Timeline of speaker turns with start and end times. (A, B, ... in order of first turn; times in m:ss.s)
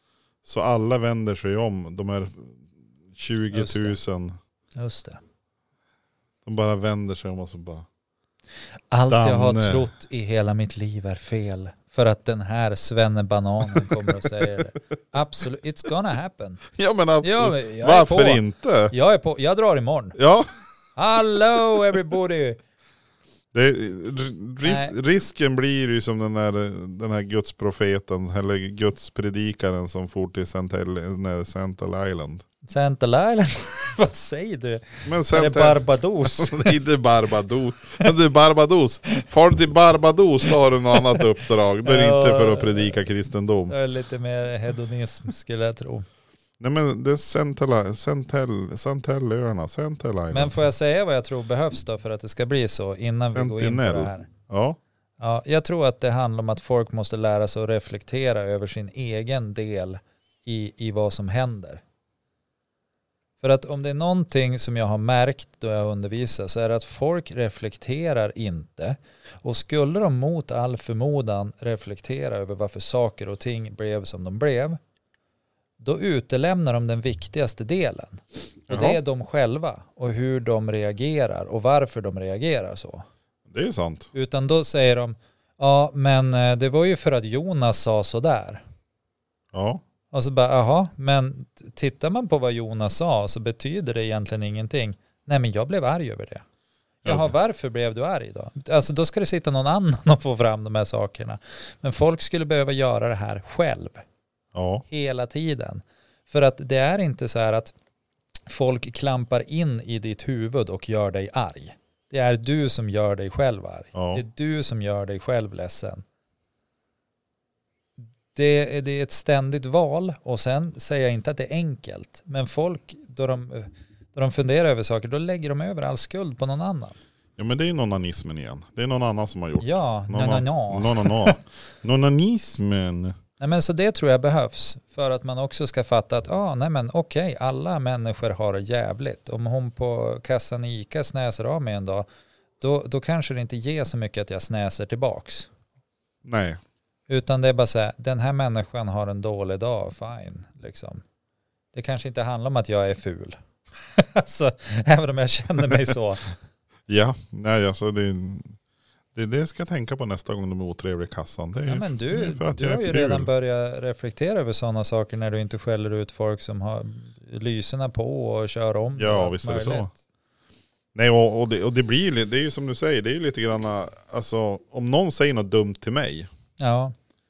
0:00.4-0:04.4 A
0:03.5-0:04.0 B
0:04.8-0:05.2 B
0:06.4-0:07.9 A
0:08.9-0:16.6 B
0:09.1-0:09.9 A
0:13.8-0:14.3 A
0:16.7-0:18.9 A
0:17.2-0:20.2 B
0:20.2-0:20.5 A
0:21.0-0:22.6 B
0:23.5-0:32.4 A
0:24.6-0:25.0 B
0:32.7-0:36.8 B
0:35.0-0:43.7 A
0:40.9-0:41.3 B
0:41.8-0:43.0 B
0:43.7-0:46.1 B
0:46.6-0:50.6 A
0:50.3-0:54.3 B
0:53.3-0:54.8 A
0:55.2-1:01.8 B
1:03.4-1:14.8 B
1:15.8-1:23.1 B
1:18.7-1:19.0 A
1:23.5-1:24.1 A
1:24.1-1:28.6 B
1:29.5-1:29.8 A
1:30.1-1:36.4 B
1:37.0-1:44.0 B
1:37.0-1:37.3 A
1:44.5-1:44.8 A
1:44.9-1:47.7 B
1:48.5-1:56.0 B
1:53.9-1:54.2 A
1:58.3-2:07.0 B
2:07.4-2:13.1 A
2:09.6-2:11.4 B
2:13.4-2:22.1 B
2:22.6-2:25.5 B
2:26.2-2:26.6 A
2:27.1-2:31.0 B
2:31.7-2:36.3 B
2:36.9-2:38.6 A
2:39.2-2:43.3 A
2:41.7-2:49.9 B
2:49.0-2:49.9 A
2:51.0-2:56.3 A
2:56.6-2:57.0 B